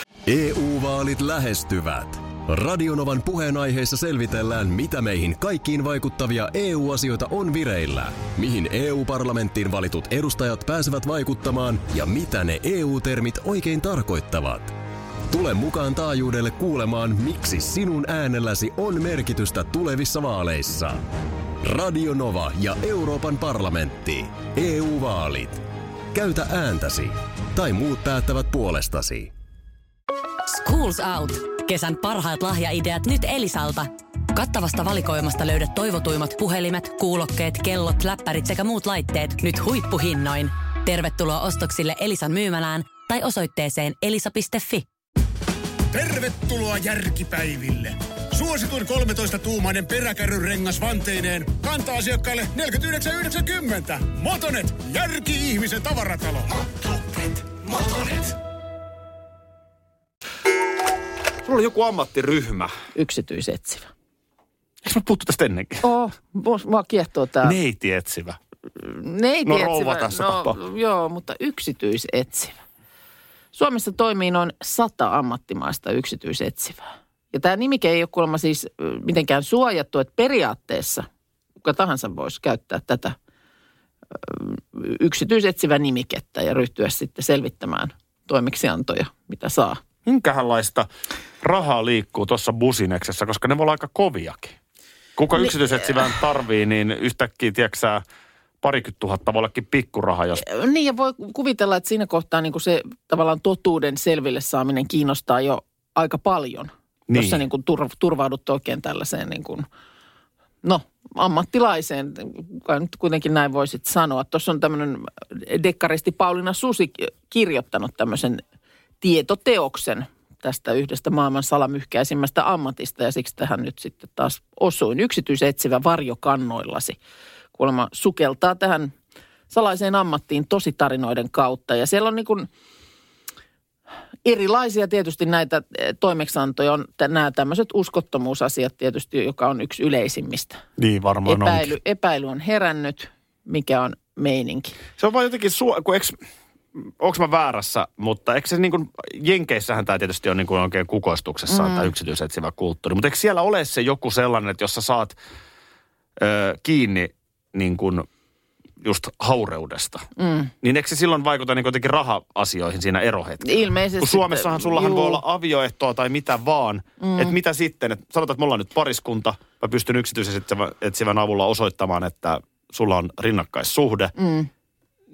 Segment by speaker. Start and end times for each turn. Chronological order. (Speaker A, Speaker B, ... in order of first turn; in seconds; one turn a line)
Speaker A: 0.3-14.7
Speaker A: 15.3-21.0
Speaker A: 21.6-29.3
Speaker B: 30.5-44.9
Speaker C: 45.9-58.3
Speaker D: 61.4-62.7
Speaker E: 63.0-63.9
Speaker D: 64.8-65.8
Speaker E: 65.8-67.6
Speaker D: 67.4-68.4
Speaker E: 68.8-72.6
Speaker D: 69.5-70.6
Speaker E: 73.5-81.1
Speaker E: 81.6-83.2
Speaker E: 84.1-89.8
Speaker D: 90.1-90.9
Speaker D: 91.4-94.6
Speaker D: 95.2-98.0
Speaker D: 98.6-100.4
Speaker E: 100.4-109.7
Speaker D: 107.1-107.4
Speaker E: 110.6-118.4
Speaker E: 119.0-127.0
Speaker E: 127.5-128.9
Speaker E: 129.5-132.5
Speaker E: 134.2-140.6
Speaker D: 140.8-141.7
Speaker E: 141.3-144.8
Speaker D: 145.0-146.2
Speaker D: 146.8-155.2
Speaker E: 151.5-151.9
Speaker D: 156.2-158.1
Speaker D: 158.8-160.1
Speaker E: 160.2-160.5
Speaker D: 160.6-174.2
Speaker E: 163.4-165.2
Speaker E: 167.0-167.3
Speaker E: 174.2-174.5